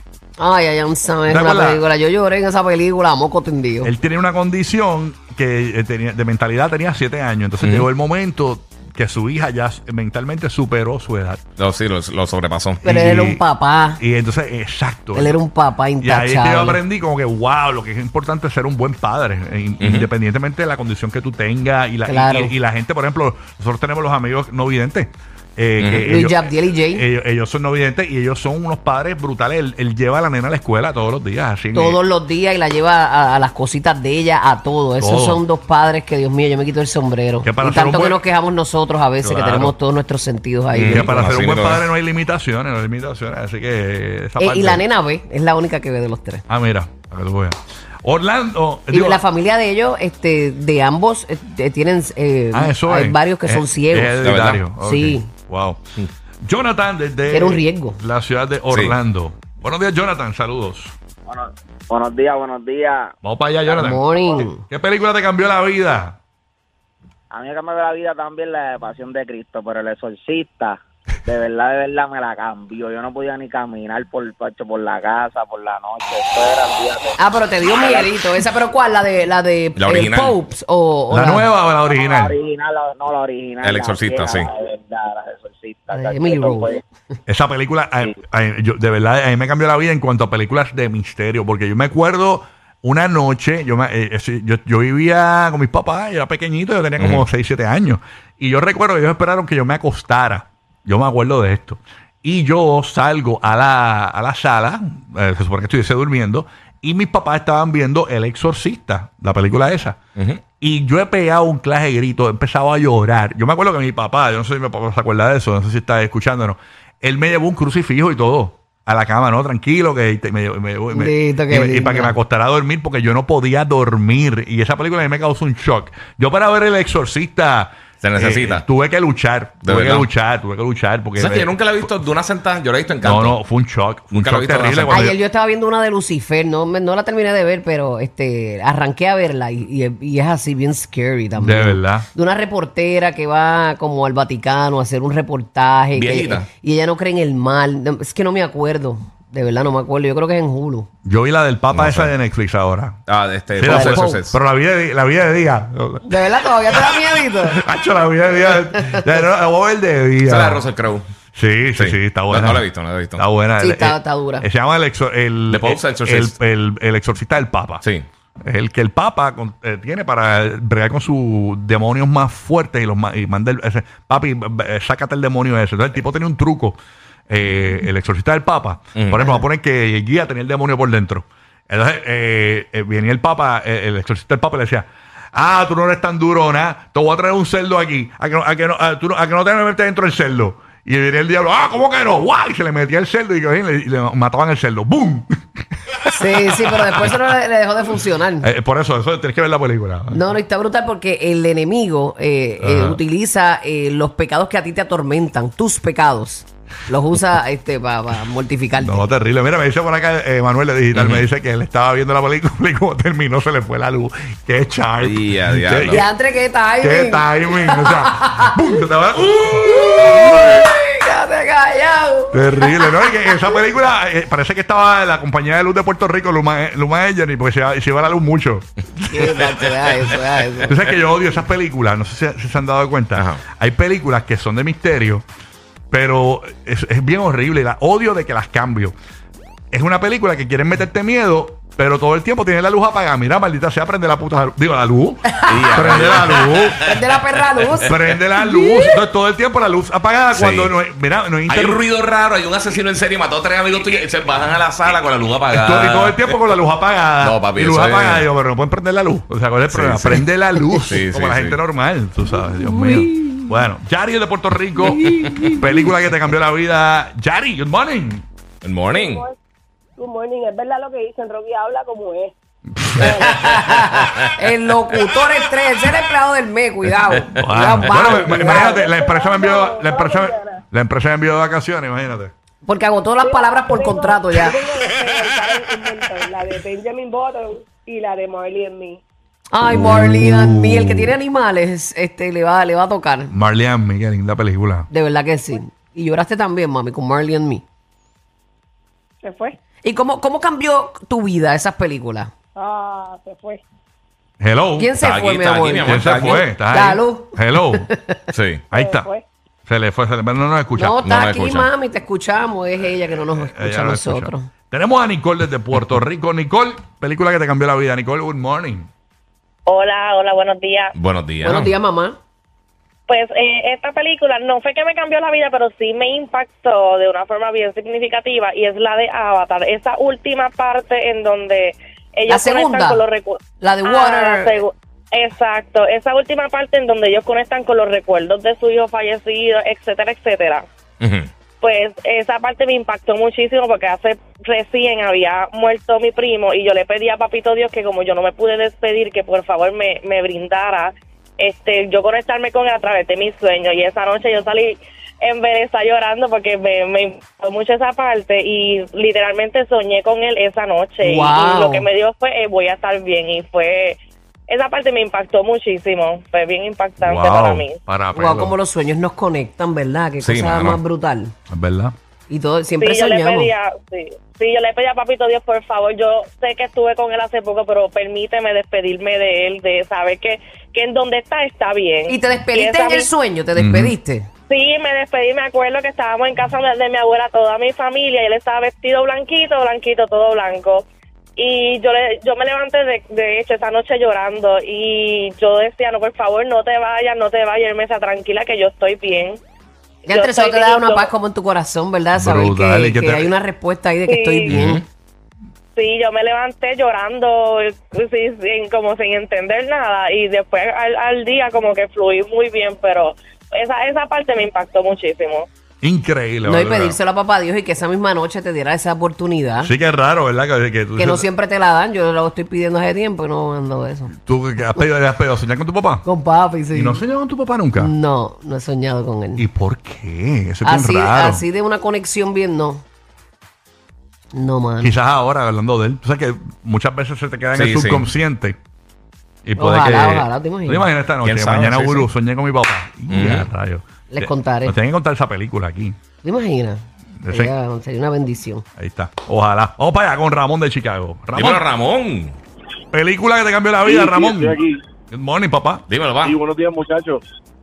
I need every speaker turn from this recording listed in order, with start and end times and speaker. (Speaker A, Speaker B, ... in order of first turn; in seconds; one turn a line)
Speaker A: 0.4-3.9
Speaker B: 1.3-1.8
Speaker B: 3.8-11.4
Speaker C: 7.6-7.9
Speaker C: 11.6-12.9
Speaker B: 12.8-13.4
Speaker A: 12.9-14.0
Speaker B: 14.0-15.4
Speaker A: 15.1-16.8
Speaker B: 16.0-32.0
Speaker C: 19.8-20.1
Speaker A: 22.1-22.5
Speaker C: 25.8-26.1
Speaker A: 26.1-27.0
Speaker A: 31.7-41.1
Speaker B: 35.0-35.4
Speaker B: 37.4-38.2
Speaker B: 39.2-39.7
Speaker C: 40.7-41.9
Speaker B: 40.9-44.8
Speaker A: 44.4-46.4
Speaker B: 46.5-49.2
Speaker A: 48.9-54.2
Speaker B: 52.5-55.8
Speaker C: 54.2-54.6
Speaker A: 54.8-55.3
Speaker B: 56.4-60.9
Speaker A: 57.3-58.0
Speaker C: 58.7-59.0
Speaker D: 61.3-63.1
Speaker B: 63.2-66.2
Speaker A: 63.7-64.6
Speaker D: 67.3-77.2
Speaker A: 77.2-81.5
Speaker D: 77.8-78.0
Speaker C: 79.8-80.4
Speaker B: 81.1-82.3
Speaker D: 81.9-86.8
Speaker C: 83.6-84.5
Speaker A: 85.9-86.8
Speaker B: 87.3-110.0
Speaker C: 97.0-97.2
Speaker C: 110.2-110.4
Speaker B: 110.6-131.9
Speaker A: 120.9-122.1
Speaker C: 128.0-128.7
Speaker C: 129.6-130.1
Speaker C: 131.2-133.4
Speaker B: 133.0-135.2
Speaker C: 134.1-135.1
Speaker A: 134.9-150.9
Speaker B: 141.4-142.1
Speaker C: 145.9-146.5
Speaker B: 151.0-153.0
Speaker C: 151.7-152.1
Speaker C: 153.1-154.4
Speaker B: 153.6-160.6
Speaker A: 153.6-154.2
Speaker A: 156.1-157.6
Speaker C: 160.2-161.1
Speaker B: 161.3-162.6
Speaker C: 161.7-163.2
Speaker B: 163.2-167.8
Speaker A: 163.6-164.4
Speaker C: 165.5-166.3
Speaker C: 167.8-168.1
Speaker B: 168.4-176.8
Speaker B: 177.3-195.4
Speaker C: 178.9-179.4
Speaker B: 196.1-197.2
Speaker A: 196.1-198.5
Speaker B: 198.4-200.2
Speaker A: 200.1-209.0
Speaker B: 202.6-203.0
Speaker B: 208.8-216.0
Speaker C: 210.9-211.2
Speaker C: 215.0-216.1
Speaker A: 215.9-218.5
Speaker B: 216.8-220.5
Speaker A: 219.4-223.6
Speaker B: 222.3-229.4
Speaker A: 229.1-230.7
Speaker B: 230.6-235.2
Speaker C: 233.2-233.4
Speaker B: 235.9-238.9
Speaker B: 239.7-246.8
Speaker A: 245.3-249.0
Speaker C: 245.5-247.9
Speaker B: 247.8-251.8
Speaker C: 250.3-250.7
Speaker C: 251.5-256.3
Speaker B: 255.5-268.2
Speaker C: 257.2-258.3
Speaker C: 259.6-260.2
Speaker C: 260.8-261.6
Speaker A: 262.7-263.3
Speaker A: 264.8-265.6
Speaker C: 264.9-265.4
Speaker C: 268.6-269.2
Speaker E: 268.9-269.4
Speaker E: 270.0-272.3
Speaker B: 272.8-273.3
Speaker E: 273.0-273.4
Speaker A: 273.3-278.8
Speaker B: 277.4-282.3
Speaker C: 277.4-278.1
Speaker E: 278.4-280.6
Speaker A: 282.6-284.6
Speaker E: 283.2-289.0
Speaker A: 289.5-293.3
Speaker B: 289.6-291.1
Speaker B: 293.3-294.9
Speaker A: 294.9-297.6
Speaker E: 299.2-299.6
Speaker A: 299.8-302.3
Speaker E: 302.6-303.6
Speaker B: 304.4-304.9
Speaker A: 304.8-308.2
Speaker C: 305.0-306.5
Speaker B: 305.8-307.9
Speaker C: 308.3-308.7
Speaker B: 308.7-309.1
Speaker E: 308.7-309.2
Speaker B: 309.7-311.0
Speaker A: 310.8-314.5
Speaker C: 311.0-311.7
Speaker B: 313.3-318.9
Speaker F: 319.7-320.9
Speaker C: 320.9-321.7
Speaker A: 321.4-322.2
Speaker F: 323.1-340.6
Speaker A: 332.3-333.0
Speaker A: 333.6-334.6
Speaker C: 341.0-341.3
Speaker F: 341.6-367.8
Speaker A: 361.0-361.9
Speaker B: 367.0-368.6
Speaker A: 368.1-371.3
Speaker C: 370.2-370.8
Speaker B: 371.5-371.9
Speaker A: 372.3-373.5
Speaker F: 372.8-383.1
Speaker A: 382.1-384.3
Speaker B: 383.6-383.9
Speaker F: 384.5-390.8
Speaker F: 391.4-399.4
Speaker A: 400.1-404.8
Speaker F: 400.1-401.1
Speaker B: 402.1-403.3
Speaker F: 404.1-404.6
Speaker C: 404.5-404.8
Speaker F: 405.7-415.5
Speaker B: 415.8-417.0
Speaker A: 416.4-419.7
Speaker B: 419.6-421.3
Speaker A: 421.0-424.1
Speaker B: 424.1-426.0
Speaker A: 426.0-427.0
Speaker B: 426.7-427.9
Speaker A: 427.8-429.4
Speaker B: 429.4-431.4
Speaker A: 430.6-432.8
Speaker A: 434.3-434.9
Speaker B: 434.8-438.6
Speaker C: 437.5-438.0
Speaker B: 439.4-446.0
Speaker A: 439.6-440.9
Speaker C: 441.2-442.1
Speaker C: 443.1-443.5
Speaker A: 444.1-444.7
Speaker A: 446.2-448.6
Speaker B: 447.2-447.5
Speaker B: 448.8-451.6
Speaker C: 451.3-452.4
Speaker B: 452.9-454.6
Speaker G: 453.8-454.8
Speaker B: 455.1-455.8
Speaker C: 455.9-456.4
Speaker G: 456.2-457.2